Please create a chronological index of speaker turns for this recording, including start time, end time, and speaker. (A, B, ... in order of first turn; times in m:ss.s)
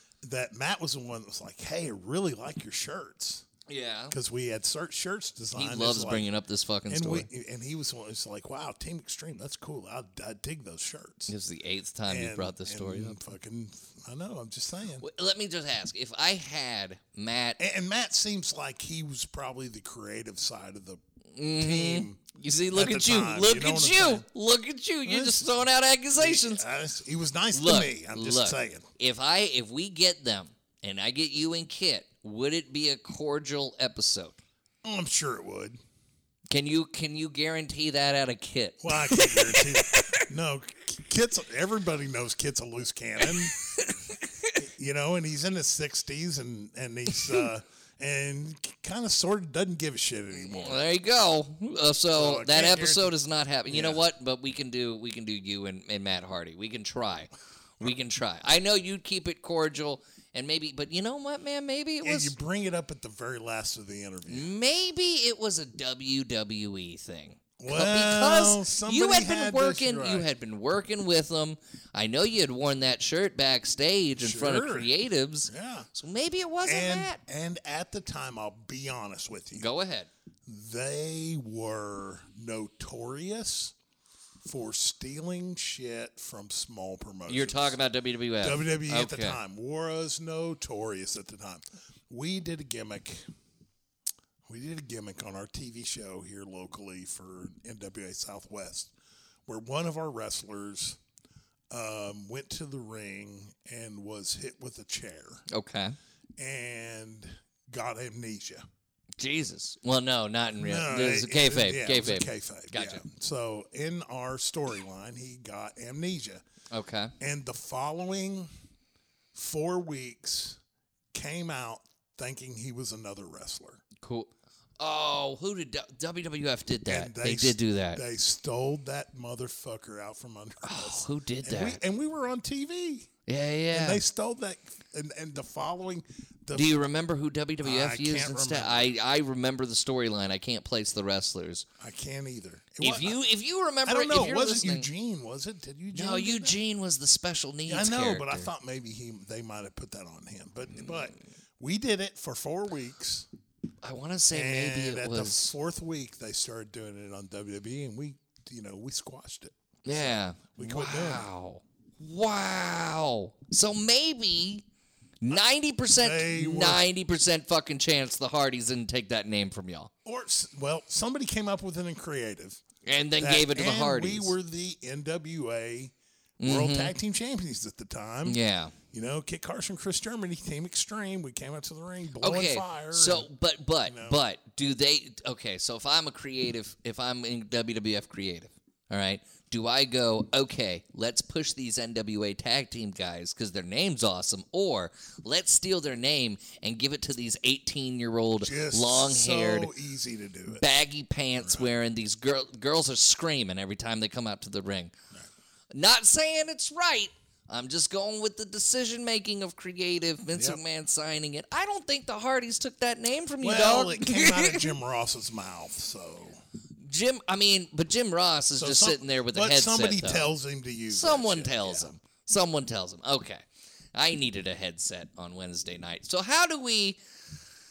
0:00.2-0:03.4 A
0:03.7-0:04.1 B
0:04.1-0:06.3 A
0:05.5-0:07.3 B
0:06.9-0:11.3 A
0:11.3-0:13.2 B
0:12.1-0:15.0 A
0:15.0-0:17.6 B
0:17.6-0:21.0 A
0:21.3-0:26.6 B
0:21.6-0:22.2 A
0:22.7-0:24.2 A
0:25.0-0:25.6 A
0:26.2-0:28.8 A
0:27.5-0:34.4 B
0:34.8-0:35.8 A
0:36.5-0:40.3 B
0:38.8-0:43.6 A
0:43.6-0:44.5 B
0:44.6-0:50.8 A
0:50.4-1:02.3 B
0:52.1-0:53.1 A
0:53.7-0:54.0 A
1:02.0-1:04.5 A
1:04.3-1:17.2 B
1:07.6-1:10.3 A
1:14.2-1:14.9 A
1:15.5-1:15.9 A
1:16.6-1:19.7 A
1:19.5-1:20.1 B
1:20.4-1:23.7 A
1:24.4-1:27.8 A
1:27.3-1:29.4 B
1:28.4-1:33.2 A
1:34.4-1:38.9 A
1:39.5-1:41.0 A
1:41.7-1:45.4 A
1:45.5-1:46.0 B
1:46.4-1:48.6 A
1:49.2-1:53.0 B
1:50.6-1:56.4 A
1:56.7-1:57.1 B
1:57.2-1:58.5 A
1:59.3-2:00.6 A
2:01.1-2:03.8 A
2:04.0-2:08.0 B
2:06.8-2:13.1 A
2:10.6-2:11.8 B
2:13.3-2:14.0 B
2:13.7-2:16.8 A
2:16.5-2:21.6 B
2:17.6-2:18.9 A
2:21.8-2:23.2 A
2:22.8-2:24.9 B
2:23.8-2:26.6 A
2:25.9-2:28.5 B
2:27.7-2:33.3 A
2:33.8-2:35.5 B
2:34.3-2:41.2 A
2:39.8-2:44.6 B
2:45.2-2:49.9 B
2:46.0-2:46.8 A
2:50.0-2:52.6 A
2:52.8-2:54.3 B
2:53.2-2:58.4 A
2:56.4-2:56.9 B
2:58.2-2:58.7 B
2:58.9-3:03.3 A
3:02.2-3:19.7 B
3:03.8-3:04.2 A
3:18.4-3:20.6 A
3:20.6-3:24.9 B
3:21.4-3:21.7 A
3:25.7-3:34.7 B
3:30.3-3:30.6 A
3:33.4-3:36.4 A
3:36.8-3:40.3 B
3:38.6-3:41.9 A
3:40.9-3:47.0 B